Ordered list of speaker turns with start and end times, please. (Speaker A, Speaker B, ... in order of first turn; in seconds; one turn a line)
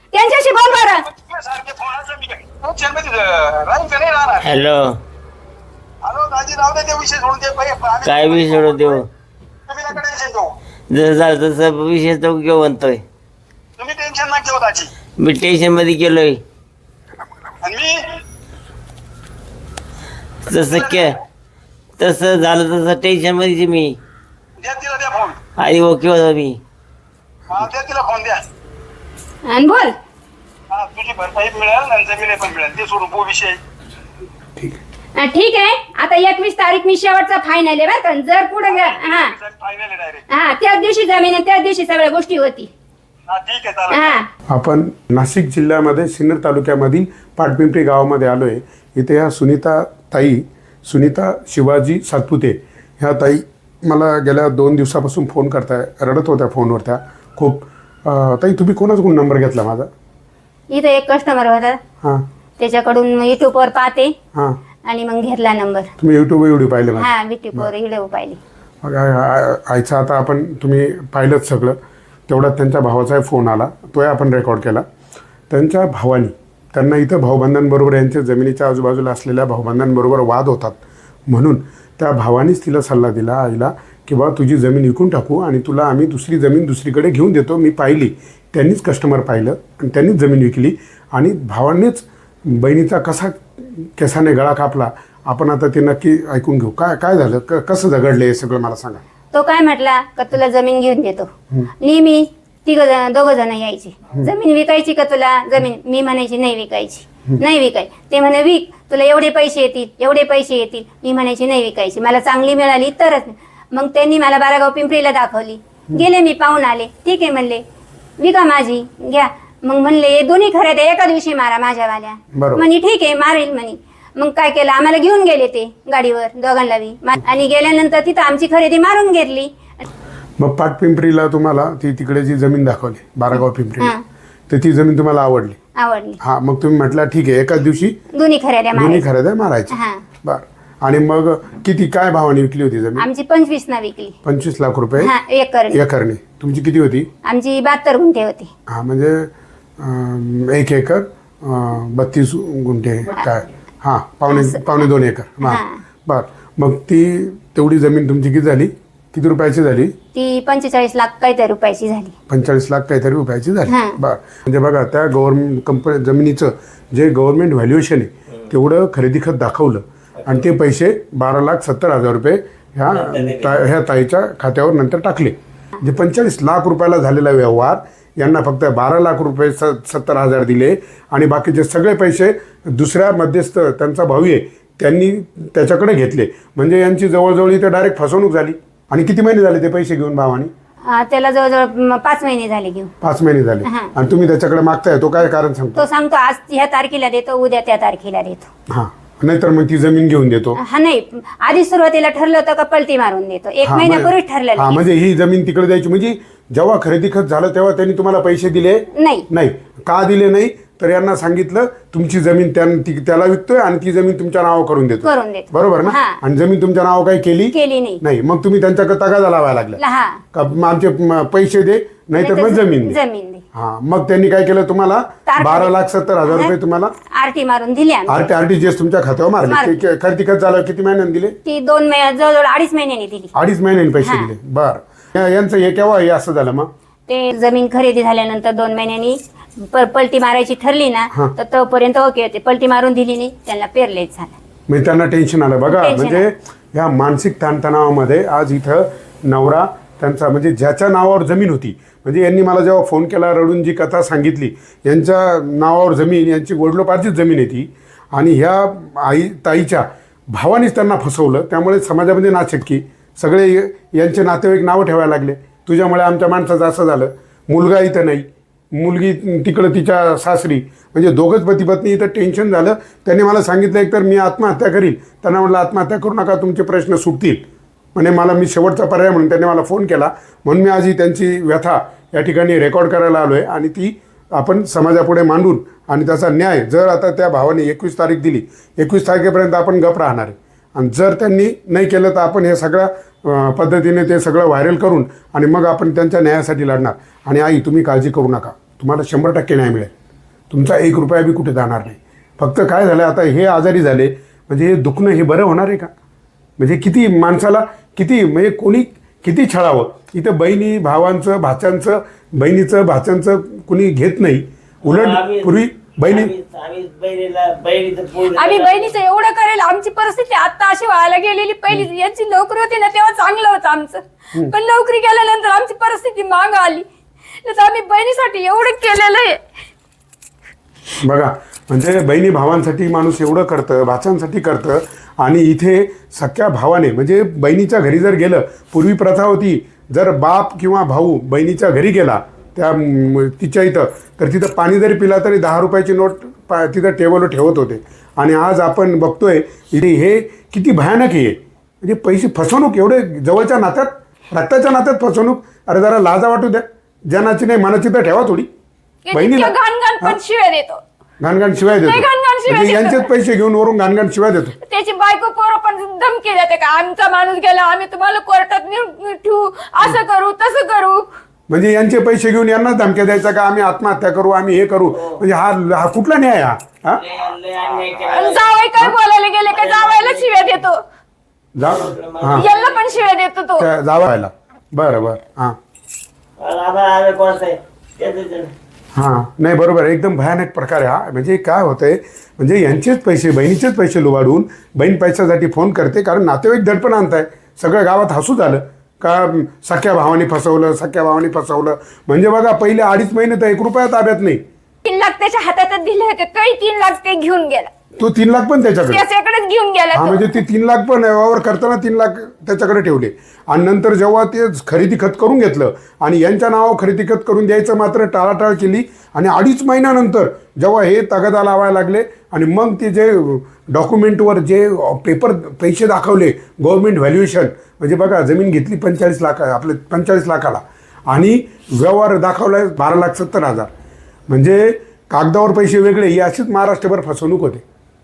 Speaker A: 0.1-1.0
Speaker B: 0.8-4.5
Speaker C: 4.4-5.0
Speaker B: 6.0-9.0
Speaker C: 8.0-9.1
Speaker B: 9.7-10.5
Speaker C: 10.9-13.0
Speaker B: 13.8-14.9
Speaker C: 15.2-16.4
Speaker B: 17.6-18.0
Speaker C: 20.5-21.2
Speaker B: 20.7-21.1
Speaker C: 22.0-24.0
Speaker B: 24.6-25.4
Speaker C: 25.6-26.6
Speaker B: 27.5-28.4
Speaker A: 29.4-29.9
Speaker B: 30.7-33.6
Speaker A: 35.2-39.3
Speaker B: 38.7-40.2
Speaker A: 40.3-42.7
Speaker B: 43.3-44.2
Speaker A: 43.9-44.3
Speaker D: 44.5-59.9
Speaker A: 60.7-61.8
Speaker A: 62.6-64.2
Speaker A: 64.8-65.9
Speaker D: 66.0-67.7
Speaker A: 67.0-68.4
Speaker D: 68.8-71.8
Speaker D: 72.3-74.9
Speaker D: 75.5-99.0
Speaker A: 99.3-117.6
Speaker A: 118.2-129.8
Speaker D: 122.3-122.7
Speaker D: 130.4-133.9
Speaker D: 134.5-135.6
Speaker A: 135.8-136.2
Speaker D: 136.2-138.0
Speaker A: 138.1-139.0
Speaker D: 138.8-143.1
Speaker A: 139.7-140.0
Speaker A: 143.0-144.2
Speaker D: 144.2-145.1
Speaker A: 145.0-145.8
Speaker D: 145.7-147.1
Speaker A: 147.3-148.5
Speaker D: 148.7-159.9
Speaker A: 154.3-154.6
Speaker A: 155.4-155.8
Speaker A: 160.2-162.2
Speaker D: 162.3-190.5
Speaker A: 163.7-164.0
Speaker C: 170.2-170.4
Speaker C: 172.9-173.6
Speaker A: 190.8-192.9
Speaker D: 193.0-195.9
Speaker A: 193.7-193.9
Speaker A: 195.8-198.5
Speaker D: 198.7-200.6
Speaker A: 200.6-204.8
Speaker D: 203.7-219.8
Speaker A: 209.0-209.3
Speaker A: 215.0-216.2
Speaker A: 217.5-218.0
Speaker A: 219.8-220.2
Speaker D: 220.3-223.0
Speaker A: 222.2-223.4
Speaker D: 223.6-226.9
Speaker A: 225.3-225.7
Speaker A: 226.3-226.5
Speaker A: 227.1-228.2
Speaker D: 228.1-231.4
Speaker A: 229.4-229.8
Speaker A: 231.5-233.3
Speaker D: 233.3-236.7
Speaker A: 234.0-234.3
Speaker A: 237.1-239.2
Speaker A: 239.7-244.3
Speaker D: 244.7-299.9
Speaker A: 245.7-246.3
Speaker D: 300.5-305.9
Speaker D: 306.6-316.3
Speaker C: 314.8-319.0
Speaker E: 318.4-324.0
Speaker E: 324.5-326.8
Speaker E: 327.4-329.4
Speaker D: 331.0-358.5
Speaker E: 359.1-360.8
Speaker D: 359.1-360.2
Speaker D: 361.2-364.6
Speaker E: 362.0-362.9
Speaker E: 364.7-371.0
Speaker D: 371.5-377.0
Speaker C: 374.9-375.2
Speaker C: 376.9-378.6
Speaker E: 378.2-380.7
Speaker C: 379.5-380.7
Speaker D: 381.6-382.5
Speaker C: 381.6-383.1
Speaker E: 382.7-383.6
Speaker D: 383.6-385.6
Speaker C: 386.4-388.5
Speaker D: 388.9-404.4
Speaker A: 404.9-405.6
Speaker E: 405.8-406.2
Speaker A: 406.4-406.9
Speaker E: 406.8-407.4
Speaker D: 408.0-409.1
Speaker A: 408.9-409.2
Speaker E: 409.2-410.1
Speaker D: 409.9-433.7
Speaker D: 434.3-437.6